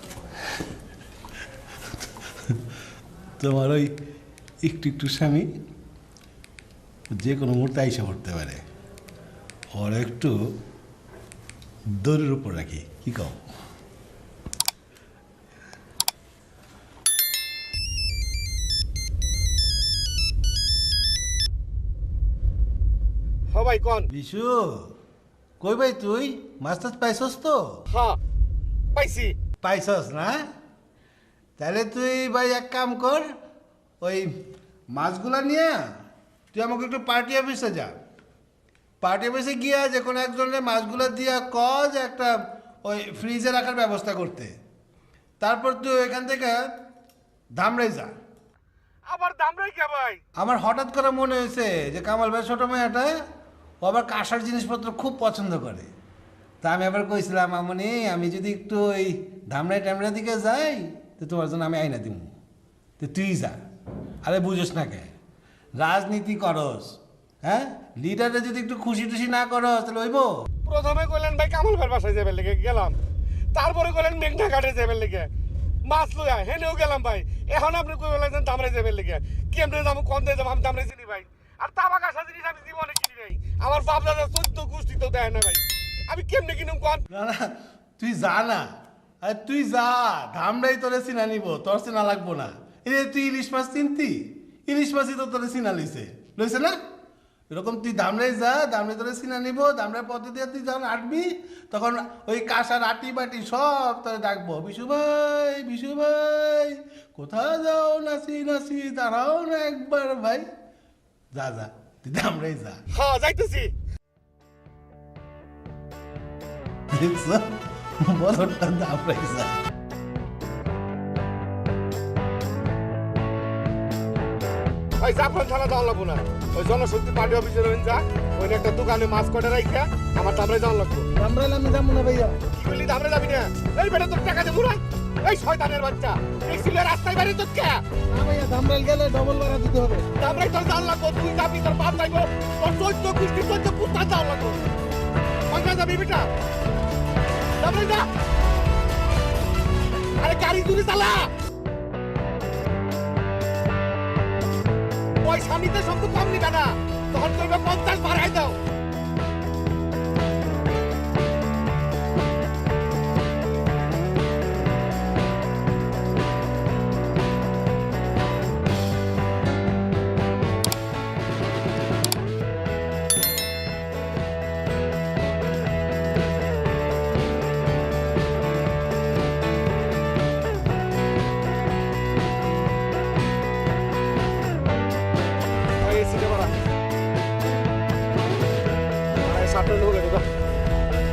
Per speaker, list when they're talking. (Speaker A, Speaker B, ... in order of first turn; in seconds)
Speaker A: 3.4-3.9, 4.6-5.5, 7.1-8.6, 9.7-10.3, 12.0-13.4, 24.1-24.9, 25.6-27.8, 29.6-30.4, 31.6-33.3, 34.0-34.3, 34.9-35.8, 36.5-38.0, 39.0-44.5, 45.4-46.7, 47.6-48.1, 50.4-53.2, 53.8-55.9, 56.6-62.3, 63.0-63.5, 64.2-65.1, 65.8-70.4, 87.1-88.7, 89.2-96.8, 97.5-110.5, 111.3-112.8, 116.9-119.6, 131.1-132.4, 138.1-140.1
Speaker B: 23.5-24.1, 27.9-28.2, 28.9-29.3, 49.0-50.2, 70.6-73.0, 73.5-75.3, 75.8-87.0, 112.9-113.7, 125.0-131.1, 132.5-137.8, 140.1-144.6, 145.5-146.3, 147.6-148.1, 150.2-151.3, 155.2-158.6, 185.8-186.5, 189.2-190.3